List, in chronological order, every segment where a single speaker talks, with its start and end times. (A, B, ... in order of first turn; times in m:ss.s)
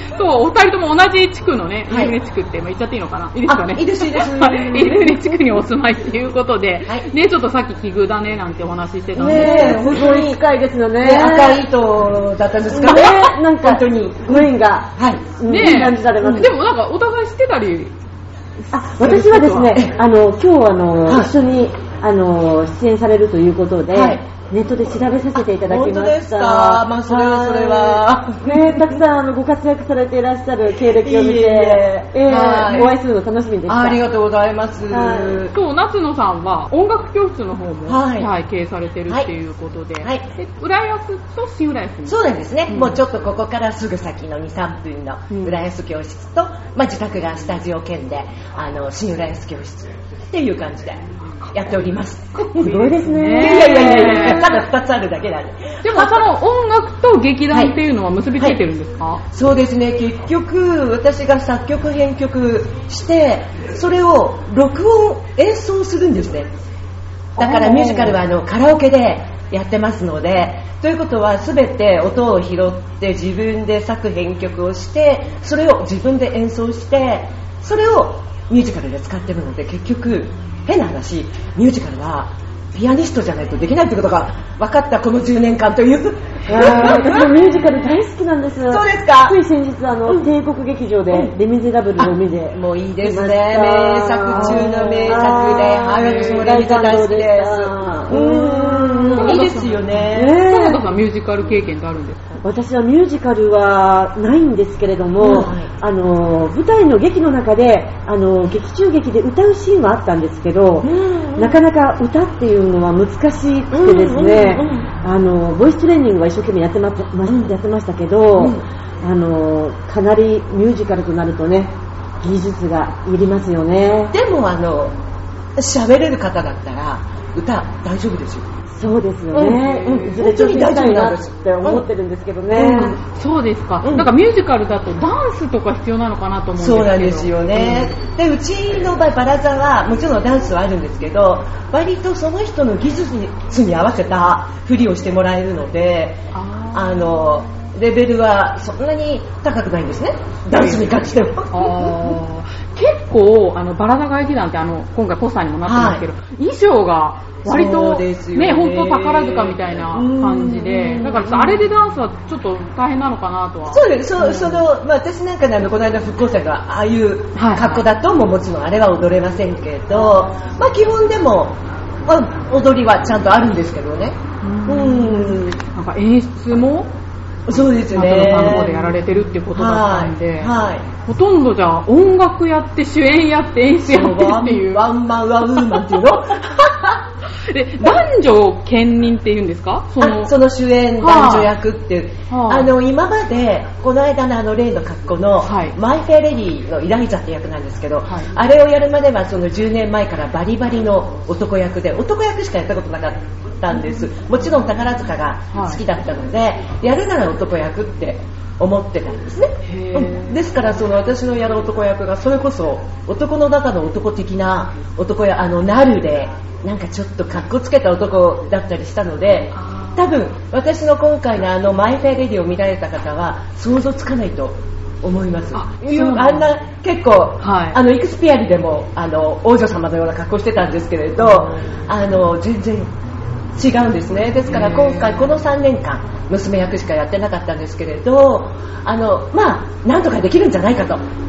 0:00.1-0:09.8 A
0:01.9-0:02.1 B
0:03.4-0:05.2 B
0:09.1-0:10.4 B
0:09.2-0:11.6 C
0:11.0-0:15.2 B
0:12.7-0:16.5 C
0:15.5-0:17.9 A
0:16.2-0:16.4 B
0:18.7-0:34.0 C
0:18.9-0:19.8 A
0:21.0-0:21.3 B
0:23.9-0:24.2 B
0:25.3-0:29.0 B
0:30.9-0:32.9 B
0:33.7-0:35.5 B
0:34.9-0:35.4 C
0:35.5-0:43.0 A
0:37.8-0:38.3 B
0:42.1-0:56.2 B
0:52.4-0:54.6 A
0:52.5-0:54.5 C
0:55.8-0:59.2 A
0:59.3-1:06.5 B
1:07.4-1:08.2 A
1:07.4-1:27.3 B
1:26.5-1:39.4 C
1:28.7-1:29.4 B
1:32.0-1:40.4 B
1:34.4-1:34.6 A
1:36.0-1:36.5 A
1:39.2-1:42.4 A
1:40.1-1:40.8 C
1:42.4-2:04.1 C
1:45.2-1:45.7 B
1:50.8-1:51.6 B
1:53.7-1:54.9 B
1:57.3-1:57.5 B
1:58.4-1:58.6 B
2:04.1-2:05.0 B
2:05.6-2:08.5 B
2:08.8-2:13.0 C
2:09.3-2:11.8 B
2:09.6-2:10.1 A
2:12.5-2:13.0 B
2:12.7-2:17.9 A
2:13.8-2:14.1 B
2:16.6-2:26.2 B
2:26.3-2:26.9 A
2:26.7-2:32.2 B
2:31.5-2:44.6 A
2:35.6-2:36.0 B
2:37.4-2:41.6 B
2:43.7-2:55.6 B
2:47.4-2:47.8 A
2:49.9-2:50.3 A
2:54.4-2:56.9 A
2:57.5-2:58.9 B
2:57.7-3:00.5 A
2:59.5-3:00.8 B
3:01.0-3:04.9 A
3:03.8-3:07.0 B
3:05.5-3:06.0 A
3:07.4-3:10.3 A
3:10.0-3:52.9 B
3:11.0-3:11.5 A
3:12.3-3:12.7 A
3:15.4-3:15.7 A
3:25.5-3:25.8 A
3:29.6-3:30.4 A
3:39.5-3:40.1 A
3:45.5-3:46.5 A
3:47.4-3:47.8 A
3:53.5-4:01.0 B
3:54.5-3:55.3 A